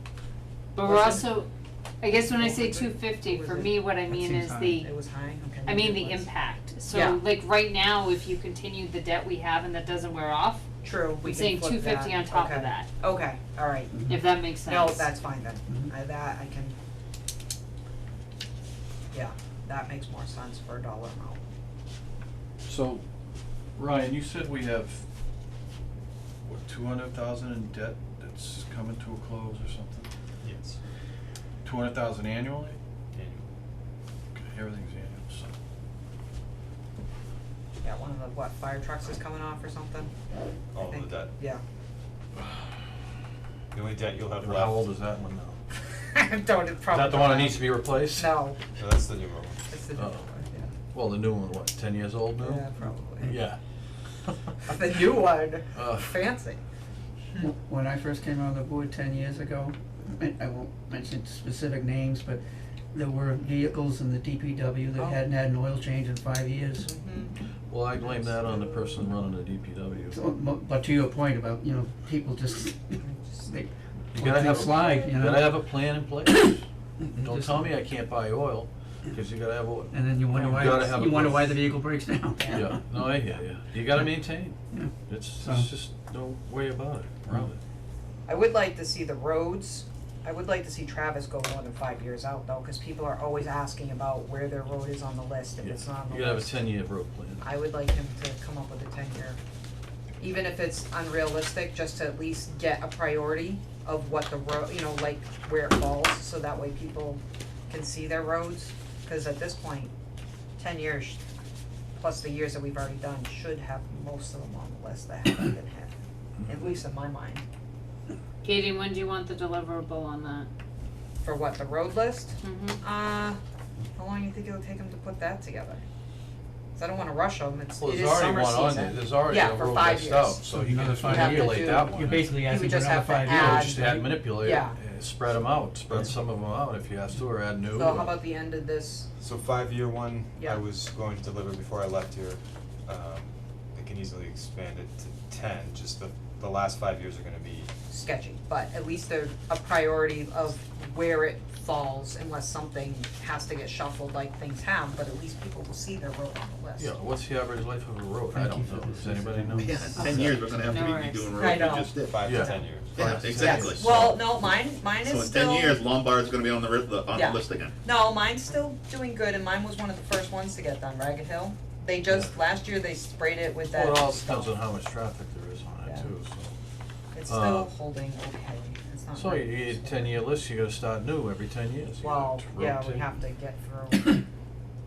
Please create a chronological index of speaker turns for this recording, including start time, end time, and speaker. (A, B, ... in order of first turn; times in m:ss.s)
0:00.7-0:01.5 A
0:00.8-0:01.3 B
0:02.0-0:04.9 A
0:02.1-0:03.8 B
0:04.1-0:04.8 C
0:04.8-0:06.3 B
0:05.6-0:10.6 A
0:06.9-0:07.2 B
0:10.8-0:14.0 B
0:11.2-0:12.9 A
0:14.1-0:15.1 A
0:14.6-0:16.8 B
0:19.1-0:21.4 B
0:22.6-0:23.0 D
0:23.7-0:25.0 D
0:26.5-0:30.1 D
0:30.4-0:30.8 E
0:31.6-0:32.8 D
0:33.1-0:33.5 E
0:34.3-0:35.5 D
0:37.8-0:40.1 B
0:40.7-0:41.4 E
0:40.8-0:41.6 B
0:43.7-0:44.9 E
0:44.4-0:45.6 D
0:45.9-0:48.6 B
0:46.9-0:48.4 D
0:48.6-0:49.7 E
0:49.7-0:50.7 B
0:50.0-0:50.2 D
0:50.9-0:52.7 D
0:52.4-0:53.3 B
0:53.2-0:53.6 D
0:54.6-0:56.6 B
0:55.7-0:56.2 D
0:57.4-1:02.4 C
1:02.9-1:06.9 C
1:05.0-1:05.2 B
1:06.8-1:07.3 B
1:07.7-1:10.2 D
1:08.0-1:09.0 B
1:10.1-1:15.6 C
1:13.0-1:13.5 B
1:14.1-1:16.6 D
1:17.0-1:17.7 C
1:17.2-1:21.6 D
1:19.9-1:22.8 C
1:22.4-1:22.7 B
1:22.5-1:27.6 D
1:24.7-1:25.7 C
1:28.2-1:36.6 B
1:35.6-1:37.4 D
1:37.4-1:39.4 B
1:40.2-1:49.9 B
1:50.6-1:51.2 B
1:52.0-1:57.4 B
1:58.4-2:00.5 A
2:01.2-2:03.4 B
2:02.4-2:02.8 A
2:04.0-2:05.8 B
2:06.8-2:10.4 B
2:07.8-2:12.2 D
2:10.5-2:14.2 C
2:11.0-2:14.8 B
2:13.2-2:18.2 D
2:17.7-2:19.1 B
2:19.2-2:27.7 E
2:20.4-2:20.6 B
2:27.9-2:36.9 B
2:36.8-2:40.0 D
2:38.3-2:40.2 C
2:39.6-2:42.2 F
2:39.9-2:41.8 A
2:40.0-2:40.4 E
2:41.4-2:42.7 B
2:42.0-2:43.5 E
2:42.2-2:44.0 D
2:42.8-2:44.4 F
2:43.4-2:45.8 B
2:45.0-2:47.7 F
2:47.1-2:54.5 B
2:53.7-2:56.6 D
2:55.8-2:56.1 B
2:57.1-3:00.2 B
2:57.3-2:57.7 D
2:59.1-3:03.1 D
3:02.0-3:04.2 B